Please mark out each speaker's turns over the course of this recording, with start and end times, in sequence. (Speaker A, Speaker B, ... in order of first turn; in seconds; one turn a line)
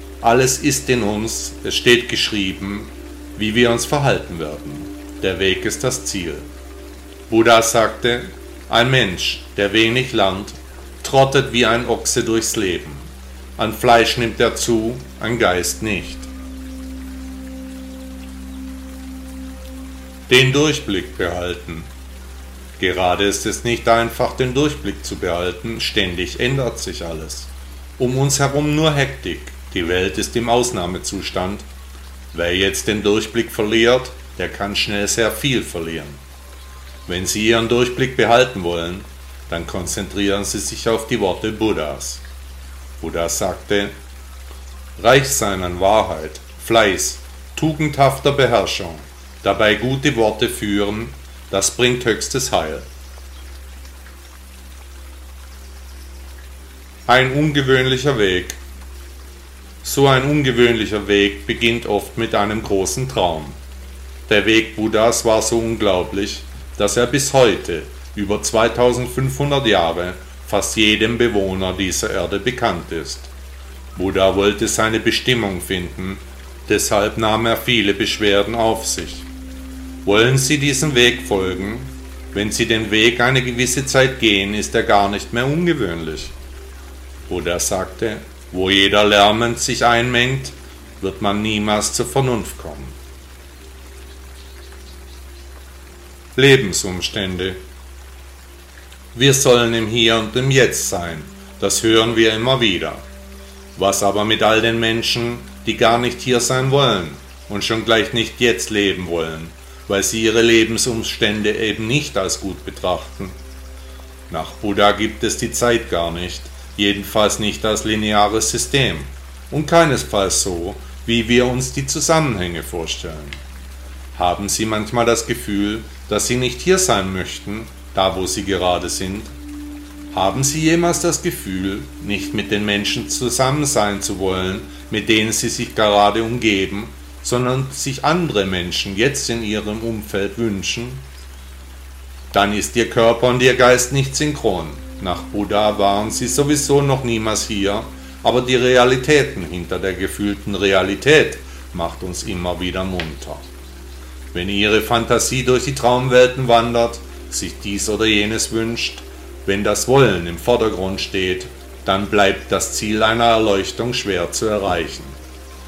Speaker A: 0.2-6.5
Speaker A: 7.3-16.3
Speaker A: 20.3-21.9
Speaker A: 22.8-31.6
Speaker A: 32.3-36.2
Speaker A: 37.1-42.2
Speaker A: 43.0-43.9
Speaker A: 45.0-52.8
Speaker A: 57.1-58.6
Speaker A: 59.8-63.6
Speaker A: 64.3-73.3
Speaker A: 73.9-79.3
Speaker A: 80.0-86.3
Speaker A: 87.3-93.0
Speaker A: 96.3-97.6
Speaker A: 99.1-103.0
Speaker A: 103.8-113.3
Speaker A: 114.3-123.4
Speaker A: 124.1-129.3
Speaker A: 130.1-141.0
Speaker A: 142.3-153.4
Speaker A: 154.3-165.2